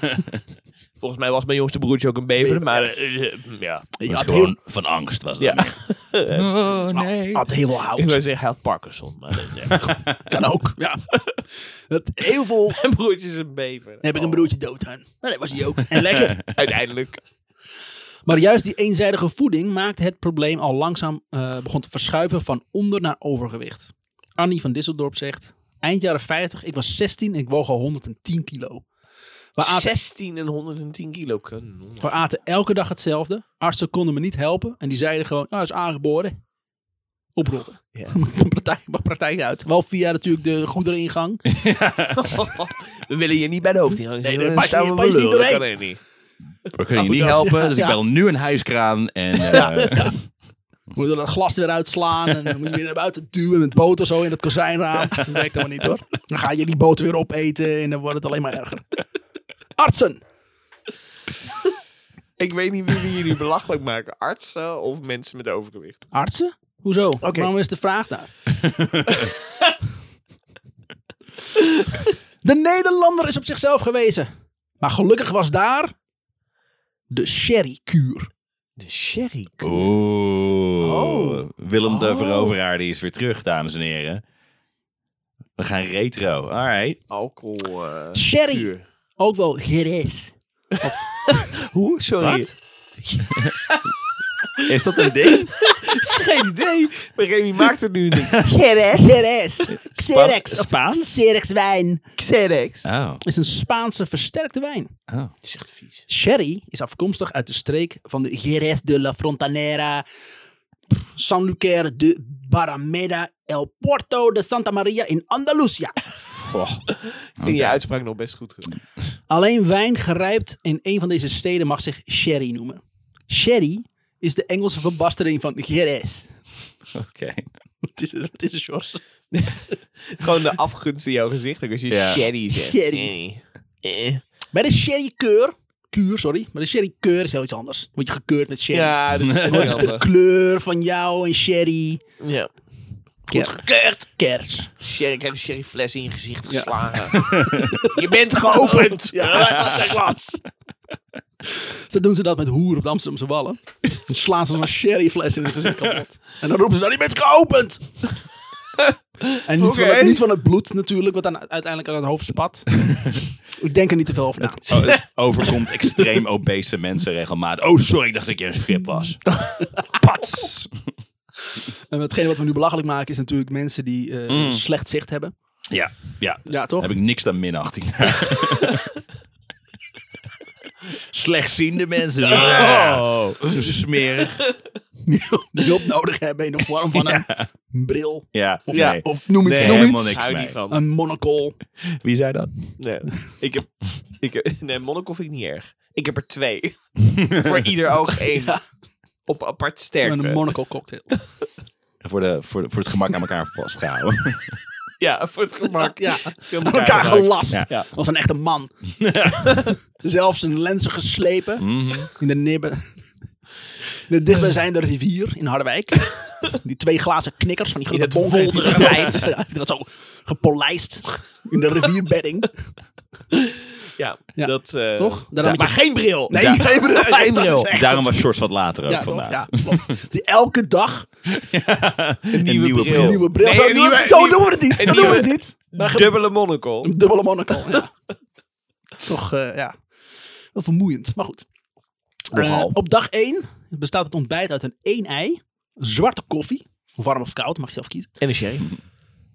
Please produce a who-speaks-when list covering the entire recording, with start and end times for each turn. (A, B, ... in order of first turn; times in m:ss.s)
0:01.0-0:03.9 A
0:02.4-0:02.8 B
0:04.0-0:04.5 B
0:04.0-0:07.4 C
0:05.4-0:06.5 A
0:06.9-0:08.2 B
0:07.9-0:09.9 A
0:09.7-0:12.8 B
0:12.7-0:14.5 A
0:14.0-0:16.4 B
0:16.5-0:17.2 A
0:18.2-0:28.8 B
0:29.5-0:29.9 B
0:29.6-0:32.2 A
0:32.0-0:36.3 B
0:37.4-0:41.4 B
0:41.5-0:42.4 C
0:42.2-0:46.0 A
0:44.2-0:45.7 B
0:46.7-0:50.2 C
0:47.0-0:48.0 B
0:47.0-0:47.8 A
0:49.5-0:50.2 B
0:49.5-0:49.9 A
0:50.9-0:58.8 B
0:59.8-1:00.2 B
1:02.4-1:06.0 A
1:06.1-1:08.3 B
1:07.2-1:07.5 A
1:12.4-1:14.3 B
1:14.8-1:15.9 B
1:17.1-1:18.3 B
1:18.8-1:19.9 A
1:19.6-1:24.2 C
1:20.8-1:22.6 A
1:25.6-1:27.0 C
1:27.1-1:28.8 A
1:28.1-1:31.6 B
1:31.3-1:33.9 A
1:34.6-1:39.3 A
1:34.6-1:35.6 C
1:38.9-1:42.0 B
1:39.7-1:41.2 C
1:42.2-1:42.8 A
1:42.8-1:43.2 C
1:43.2-1:44.9 B
1:45.1-1:45.3 C
1:45.4-1:46.0 A
1:46.1-1:50.0 B
1:50.9-1:56.0 B
1:56.4-1:56.8 C
1:57.0-1:58.8 A
1:57.4-1:57.8 C
1:59.3-2:06.4 B
2:06.9-2:07.5 C
2:07.8-2:09.0 B
2:09.3-2:14.2 A
2:11.9-2:12.2 C
2:12.5-2:13.2 B
2:14.5-2:22.0 B
2:18.7-2:20.0 A
2:19.2-2:19.8 C
2:22.2-2:22.5 A
2:23.3-2:23.6 A
2:23.3-2:24.7 B
2:24.8-2:30.2 A
2:26.5-2:30.4 B
2:27.2-2:27.5 C
2:31.4-2:38.1 B
2:38.8-2:40.2 A
2:39.4-2:44.8 B
2:44.4-2:49.3 C
2:44.7-2:45.8 A
2:49.3-2:49.6 A
2:49.9-2:50.8 C
2:51.6-2:55.3 B
2:54.3-2:54.6 C
2:55.7-2:58.9 C
2:56.5-2:56.9 B
3:00.9-3:04.4 C
3:02.2-3:04.6 A
3:05.0-3:11.6 B
3:06.9-3:07.5 C
3:08.3-3:10.6 C
3:08.7-3:10.8 A
3:11.9-3:12.7 C
3:12.8-3:18.6 A
3:17.2-3:17.6 C
3:19.2-3:20.5 A
3:20.0-3:21.1 B
3:22.0-3:24.6 C
3:25.0-3:27.9 A
3:25.8-3:28.7 B
3:29.1-3:29.4 C
3:30.0-3:33.1 B
3:31.6-3:32.1 C
3:33.8-3:42.5 B
3:37.9-3:39.3 A
3:43.3-3:47.7 A
3:44.4-3:48.2 B
3:46.3-3:46.6 C
3:47.7-3:50.0 C
3:48.9-3:51.1 B
3:51.3-3:53.2 C
3:52.3-3:56.9 A
3:52.9-3:56.2 B
3:56.8-3:57.9 B
3:59.0-3:59.7 B
4:00.5-4:01.4 B
4:02.3-4:08.1 B
4:02.3-4:02.7 C
4:08.2-4:08.7 A